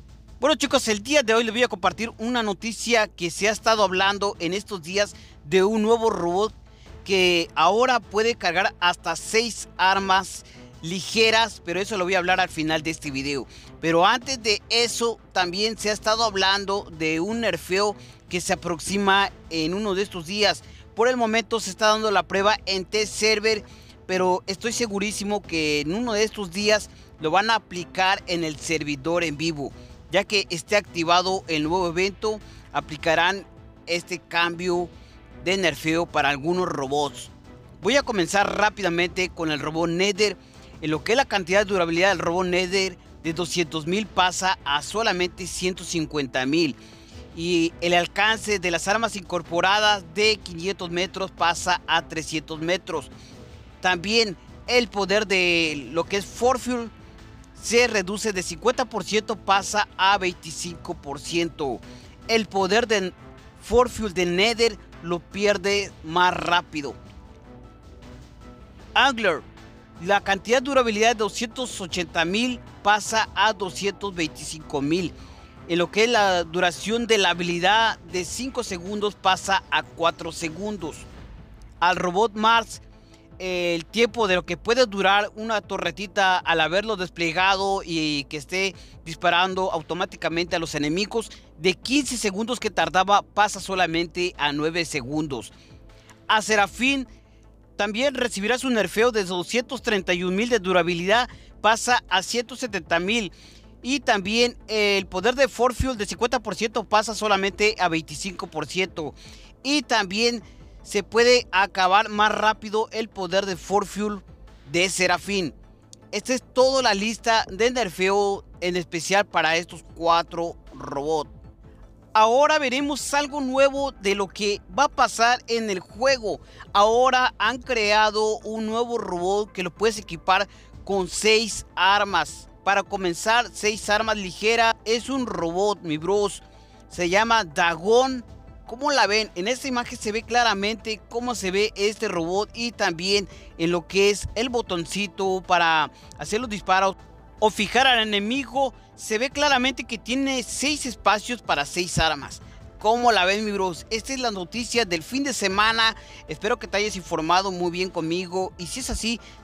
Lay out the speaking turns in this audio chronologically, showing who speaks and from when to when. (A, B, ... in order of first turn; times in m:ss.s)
0:00.4-0:46.8 A
0:47.3-0:53.1 A
0:53.8-0:56.9 A
0:57.6-1:07.0 A
1:08.9-1:09.4 A
1:10.0-1:15.1 A
1:15.7-1:21.1 A
1:21.8-1:22.8 A
1:23.4-1:35.5 A
1:36.3-1:37.1 A
1:37.8-1:55.6 A
1:56.1-2:01.3 A
2:02.1-2:39.2 A